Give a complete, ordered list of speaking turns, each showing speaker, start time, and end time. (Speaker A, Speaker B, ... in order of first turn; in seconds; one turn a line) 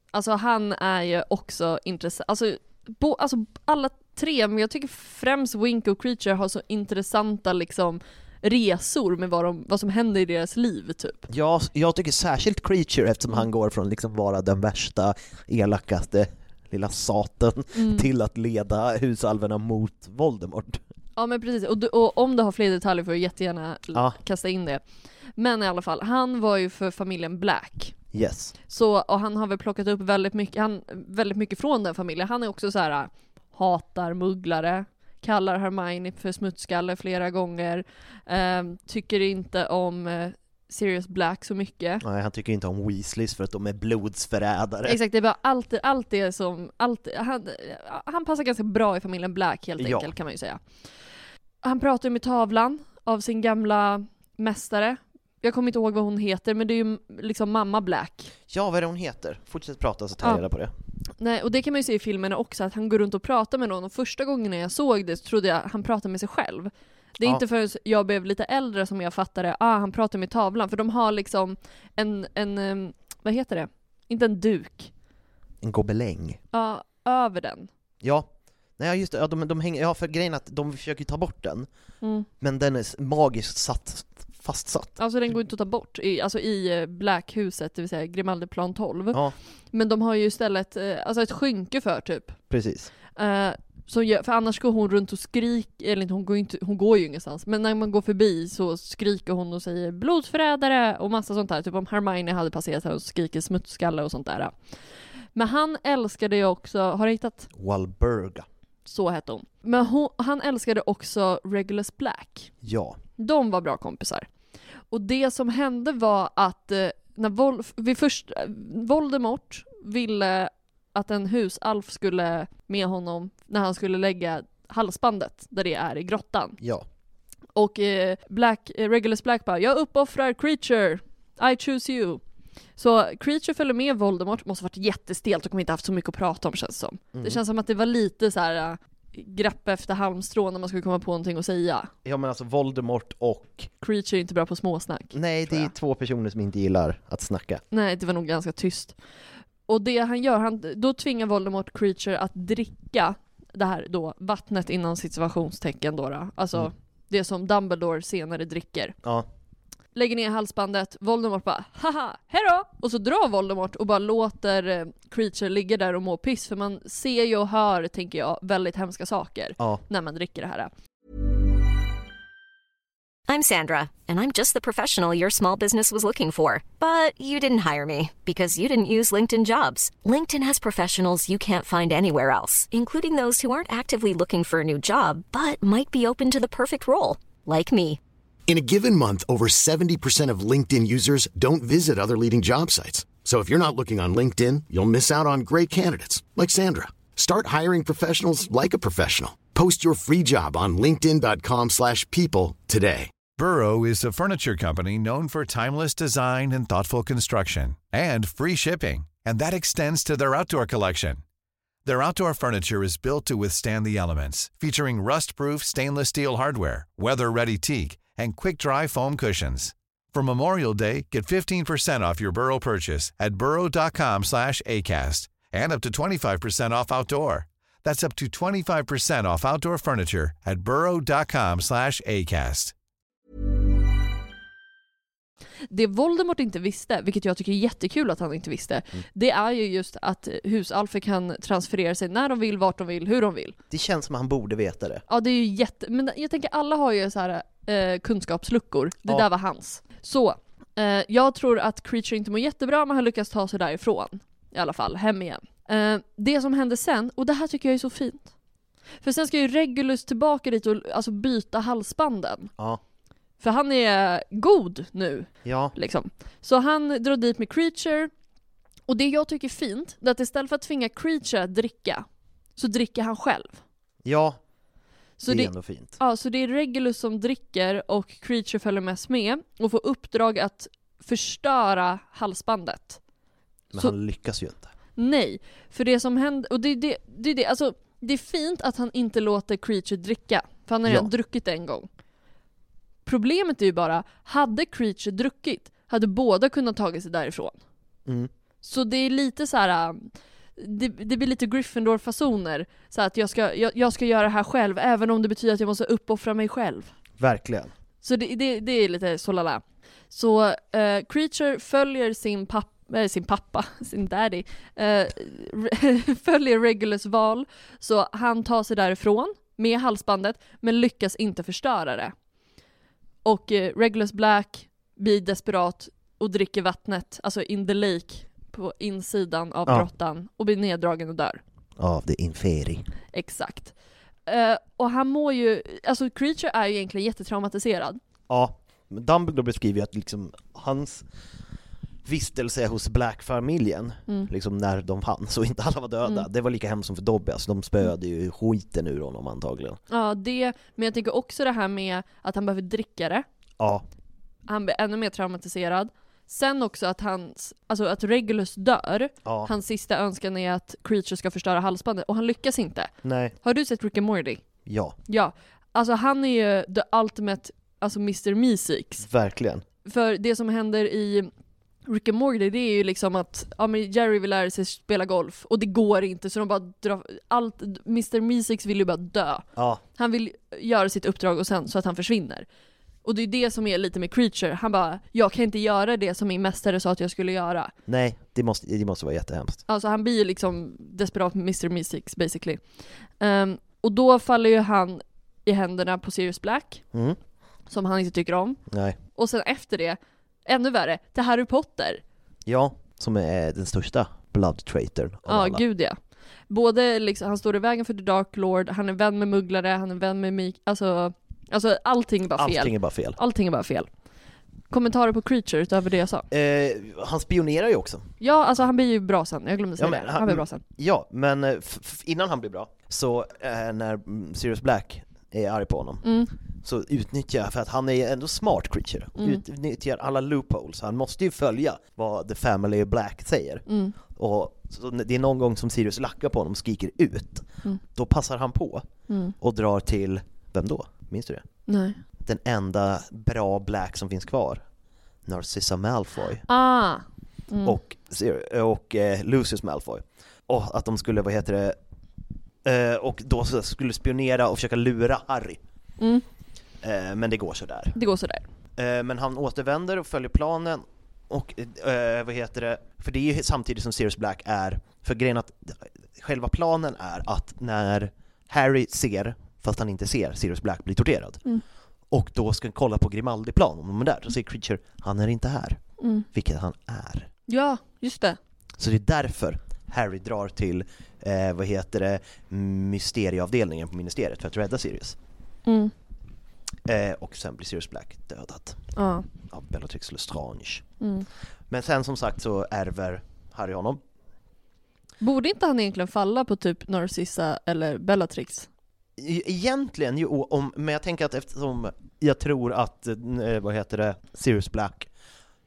Speaker A: 0.1-11.3
Speaker B: 11.3-20.8
Speaker A: 17.7-18.1
Speaker A: 21.1-24.8
Speaker A: 25.4-27.9
Speaker B: 28.1-28.5
Speaker A: 28.7-42.0
Speaker B: 42.0-45.0
Speaker A: 44.9-50.6
Speaker B: 49.8-50.1
Speaker A: 51.6-58.3
Speaker B: 58.5-60.7
Speaker A: 61.2-74.9
Speaker B: 75.6-76.4
Speaker A: 76.5-77.7
Speaker B: 78.0-81.7
Speaker A: 82.0-82.3
Speaker B: 82.4-85.0
Speaker A: 85.0-89.2
Speaker A: 89.7-92.4
Speaker B: 92.5-92.9
Speaker A: 93.1-104.5
Speaker A: 105.4-107.5
Speaker B: 107.5-108.5
Speaker A: 108.9-112.5
Speaker B: 112.6-113.0
Speaker A: 113.2-114.2
Speaker A: 114.9-126.6
Speaker B: 126.6-126.9
Speaker A: 127.5-132.2
Speaker A: 132.8-141.9
Speaker B: 137.1-137.4
Speaker B: 142.0-143.7
Speaker A: 143.8-145.7
Speaker B: 145.1-147.6
Speaker A: 147.7-148.9
Speaker A: 149.7-158.9
Speaker A: 159.9-170.7
Speaker C: 173.3-188.0
Speaker D: 188.5-203.1
Speaker E: 203.4-211.2
Speaker E: 211.8-232.7
Speaker A: 235.7-243.6
Speaker B: 243.7-245.0
Speaker A: 245.1-258.3
Speaker A: 259.0-262.5
Speaker A: 263.4-268.1
Speaker B: 265.4-265.7
Speaker A: 268.9-272.1
Speaker A: 272.6-273.6
Speaker B: 274.0-274.4
Speaker A: 275.2-283.0
Speaker B: 275.3-276.0
Speaker B: 283.7-284.7
Speaker A: 284.9-291.9
Speaker B: 290.8-291.1
Speaker A: 293.1-297.6
Speaker A: 298.6-306.9
Speaker B: 307.2-307.7
Speaker A: 308.0-322.1
Speaker A: 323.2-331.4
Speaker B: 331.8-332.9
Speaker A: 333.1-333.7
Speaker A: 334.3-338.0
Speaker B: 338.3-341.1
Speaker B: 342.1-349.8
Speaker A: 349.9-353.2
Speaker B: 353.6-353.8
Speaker A: 354.5-364.4
Speaker B: 359.2-359.5
Speaker B: 363.0-363.3
Speaker B: 364.6-364.9
Speaker A: 365.1-369.1
Speaker B: 369.0-369.6
Speaker A: 369.8-371.3
Speaker A: 371.9-379.4
Speaker B: 379.6-379.8
Speaker A: 380.0-382.4
Speaker A: 383.1-387.7
Speaker B: 387.9-389.6
Speaker A: 389.7-392.6
Speaker A: 393.2-396.8
Speaker B: 396.9-397.2
Speaker A: 397.7-398.6
Speaker B: 398.7-399.0
Speaker A: 399.1-402.0
Speaker B: 402.4-405.6
Speaker A: 405.3-406.0
Speaker A: 406.5-413.9
Speaker B: 412.4-413.2
Speaker A: 414.7-416.3
Speaker B: 416.3-418.1
Speaker A: 418.2-420.6
Speaker B: 419.8-426.1
Speaker A: 426.0-426.3
Speaker B: 426.6-438.9
Speaker A: 429.2-429.4
Speaker A: 433.7-433.9
Speaker A: 439.1-439.3
Speaker B: 439.4-441.4
Speaker A: 441.7-442.0
Speaker B: 442.2-444.6
Speaker B: 445.3-446.4
Speaker A: 446.5-447.8
Speaker B: 447.6-451.8
Speaker B: 452.6-455.6
Speaker A: 456.0-456.2
Speaker B: 456.8-457.9
Speaker A: 457.9-458.4
Speaker B: 458.8-471.4
Speaker B: 472.1-475.8
Speaker A: 476.0-476.3
Speaker B: 476.3-477.3
Speaker A: 477.5-478.4
Speaker B: 478.8-485.2
Speaker A: 485.6-485.9
Speaker B: 486.9-488.8
Speaker A: 488.9-489.3
Speaker B: 489.4-490.9
Speaker A: 491.0-491.3
Speaker B: 491.7-494.0
Speaker A: 495.2-498.7
Speaker B: 499.2-505.1